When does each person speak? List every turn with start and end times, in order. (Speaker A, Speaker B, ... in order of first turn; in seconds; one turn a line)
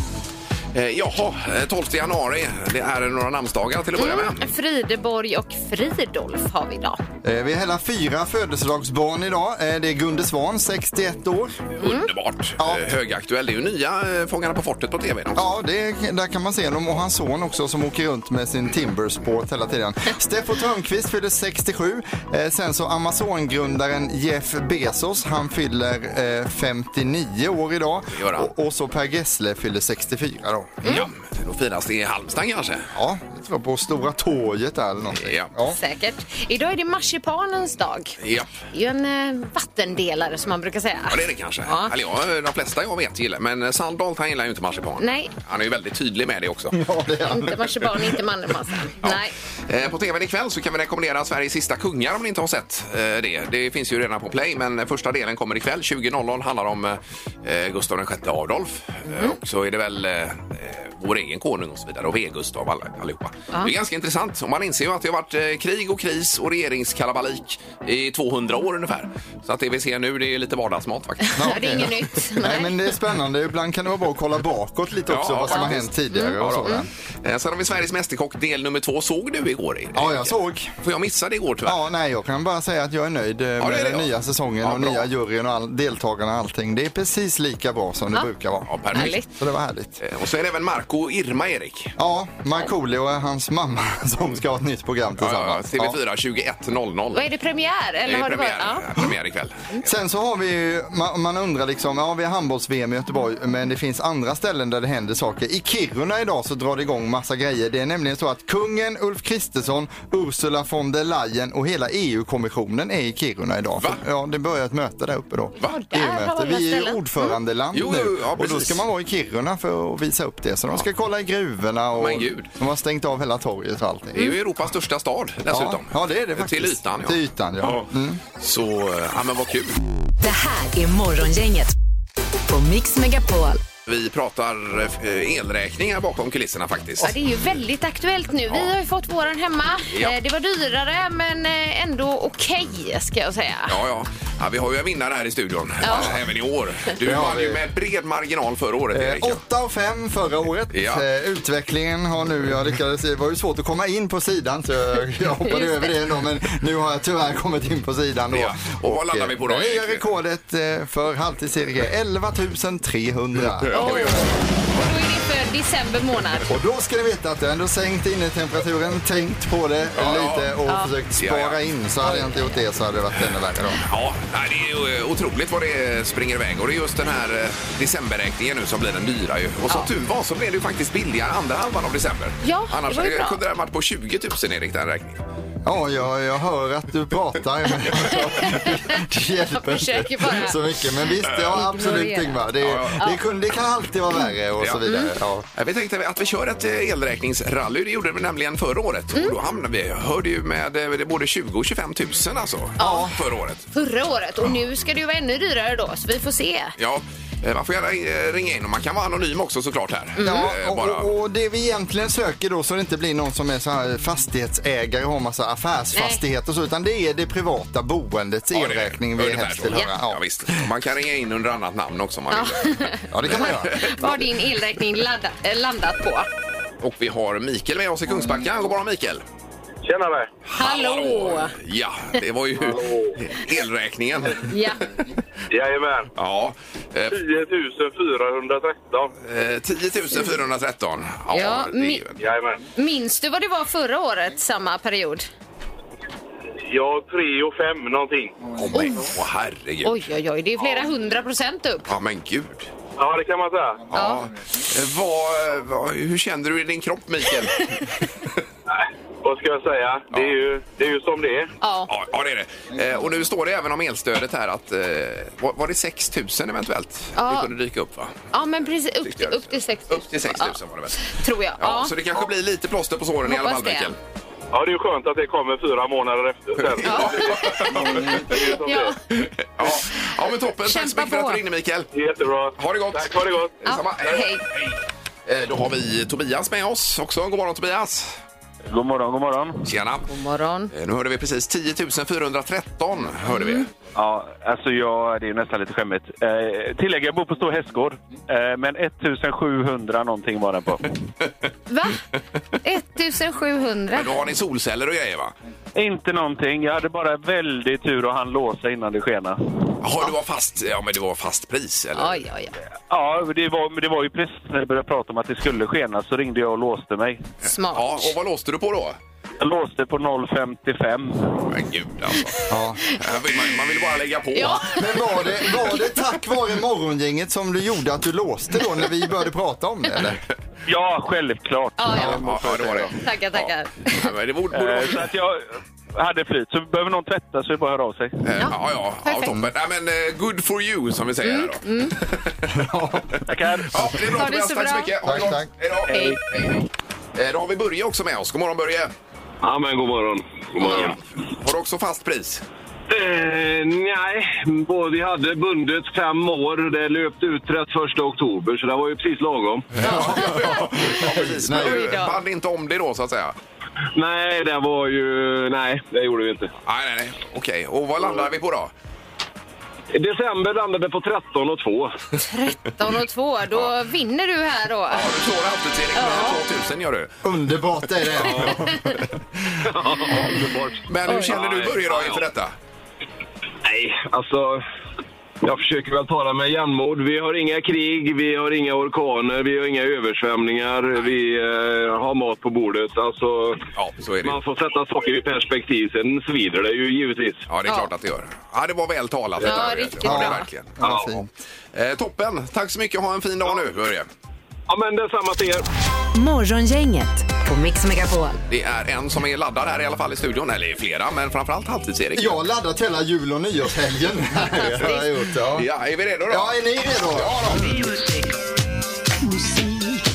Speaker A: 0.7-4.5
Speaker B: 4.0-7.0
Speaker C: 7.2-11.6
Speaker B: 11.8-12.1
Speaker A: 11.8-15.5
Speaker C: 12.6-12.9
Speaker C: 15.3-31.0
Speaker A: 28.2-28.5
Speaker B: 30.8-31.1
Speaker A: 30.9-32.9
Speaker C: 32.9-35.8
Speaker A: 35.1-35.5
Speaker B: 35.7-41.9
Speaker A: 38.2-38.5
Speaker A: 41.1-46.8
Speaker B: 45.0-45.3
Speaker C: 46.7-48.1
Speaker B: 47.3-49.3
Speaker A: 49.0-71.5
Speaker B: 59.1-59.4
Speaker B: 71.2-72.8
Speaker C: 71.4-76.9
Speaker A: 75.1-81.8
Speaker B: 75.5-76.8
Speaker C: 79.9-80.7
Speaker C: 81.7-90.0
Speaker A: 83.6-84.1
Speaker A: 84.6-85.1
Speaker A: 88.7-89.2
Speaker B: 88.9-89.3
Speaker A: 90.0-92.0
Speaker C: 92.0-96.0
Speaker A: 95.2-97.3
Speaker B: 97.1-98.8
Speaker A: 98.1-99.7
Speaker C: 99.8-124.3
Speaker B: 115.6-117.4
Speaker A: 117.7-118.8
Speaker A: 122.0-122.5
Speaker A: 124.1-129.8
Speaker C: 125.5-128.2
Speaker D: 130.2-131.7
Speaker D: 132.5-133.6
Speaker A: 133.9-137.2
Speaker B: 137.0-143.8
Speaker A: 143.7-149.4
Speaker B: 145.8-146.1
Speaker C: 145.9-146.2
Speaker C: 147.0-147.6
Speaker C: 148.9-164.2
Speaker A: 150.7-151.0
Speaker B: 155.4-155.9
Speaker A: 158.3-160.1
Speaker A: 163.6-164.2
Speaker B: 163.7-166.5
Speaker C: 166.5-173.8
Speaker A: 170.0-170.5
Speaker A: 171.2-171.6
Speaker B: 172.0-172.5
Speaker A: 173.8-185.2
Speaker B: 182.4-183.4
Speaker C: 185.7-195.5
Speaker B: 188.0-189.0
Speaker B: 189.5-190.6
Speaker A: 191.3-191.6
Speaker B: 191.4-192.5
Speaker A: 192.6-193.0
Speaker B: 194.8-195.1
Speaker A: 195.6-203.7
Speaker B: 202.8-203.1
Speaker C: 202.8-203.2
Speaker B: 203.7-206.8
Speaker A: 206.8-211.1
Speaker B: 210.2-210.5
Speaker C: 210.2-220.7
Speaker B: 215.9-216.2
Speaker A: 218.5-224.3
Speaker B: 222.3-226.3
Speaker C: 223.1-223.8
Speaker A: 226.8-229.2
Speaker E: 229.8-230.3
Speaker A: 230.5-234.6
Speaker B: 230.6-231.5
Speaker E: 232.7-233.1
Speaker B: 234.5-234.9
Speaker E: 235.5-236.1
Speaker A: 236.2-237.2
Speaker E: 237.1-239.1
Speaker A: 239.2-242.2
Speaker B: 241.3-242.0
Speaker E: 242.2-242.6
Speaker B: 242.8-245.3
Speaker E: 246.7-248.5
Speaker A: 248.6-250.0
Speaker B: 248.7-249.1
Speaker B: 249.8-251.9
Speaker A: 251.9-252.7
Speaker E: 253.0-253.8
Speaker A: 253.9-257.9
Speaker B: 253.9-254.2
Speaker E: 258.7-261.5
Speaker B: 261.6-261.9
Speaker A: 261.9-268.3
Speaker B: 267.2-267.5
Speaker B: 268.3-271.9
Speaker A: 269.1-274.0
Speaker B: 273.2-273.9
Speaker E: 274.5-279.0
Speaker A: 276.7-278.3
Speaker B: 276.8-279.0
Speaker A: 279.2-281.9
Speaker B: 280.6-281.4
Speaker E: 281.9-283.6
Speaker A: 282.6-288.2
Speaker B: 283.6-284.4
Speaker F: 288.7-289.7
Speaker A: 289.6-290.1
Speaker B: 290.1-290.7
Speaker A: 290.7-293.7
Speaker B: 293.3-293.6
Speaker F: 293.9-300.9
Speaker B: 301.7-302.0
Speaker B: 302.6-304.2
Speaker A: 303.9-305.3
Speaker F: 305.8-309.4
Speaker A: 309.8-312.2
Speaker B: 311.9-312.5
Speaker F: 312.9-317.2
Speaker B: 317.4-318.1
Speaker A: 317.7-319.0
Speaker F: 319.4-321.3
Speaker A: 321.4-322.4
Speaker C: 322.5-322.8
Speaker A: 322.9-324.9
Speaker B: 324.4-324.9
Speaker C: 324.4-330.2
Speaker F: 330.7-332.9
Speaker B: 331.8-332.3
Speaker A: 332.0-335.1
Speaker B: 333.0-334.0
Speaker F: 334.5-338.2
Speaker A: 338.2-342.6
Speaker B: 338.4-339.4
Speaker B: 341.2-342.0
Speaker C: 342.5-343.1
Speaker F: 343.3-343.8
Speaker A: 343.7-348.9
Speaker B: 344.0-344.9
Speaker C: 345.0-345.5
Speaker B: 345.9-346.2
Speaker F: 345.9-346.2
Speaker G: 349.4-351.0
Speaker A: 350.6-352.4
Speaker G: 352.9-359.7
Speaker A: 359.8-363.4
Speaker C: 359.8-361.9
Speaker B: 359.8-362.2
Speaker G: 364.0-366.5
Speaker A: 366.6-368.7
Speaker G: 369.9-372.0
Speaker B: 372.2-375.1
Speaker A: 374.9-377.1
Speaker B: 376.0-376.4
Speaker C: 377.2-379.0
Speaker A: 378.2-378.5
Speaker G: 379.6-382.2
Speaker A: 379.9-382.5
Speaker B: 381.1-381.4
Speaker G: 383.6-384.6
Speaker G: 385.4-393.6
Speaker A: 393.8-394.4
Speaker G: 394.2-397.4
Speaker A: 397.5-401.1
Speaker B: 399.4-400.5
Speaker C: 400.0-401.3
Speaker G: 400.8-401.1
Speaker A: 401.7-404.1
Speaker G: 404.7-405.7
Speaker D: 406.1-408.4
Speaker A: 408.5-412.4
Speaker C: 412.2-415.7
Speaker B: 414.6-415.0
Speaker A: 415.6-417.9
Speaker C: 416.3-417.6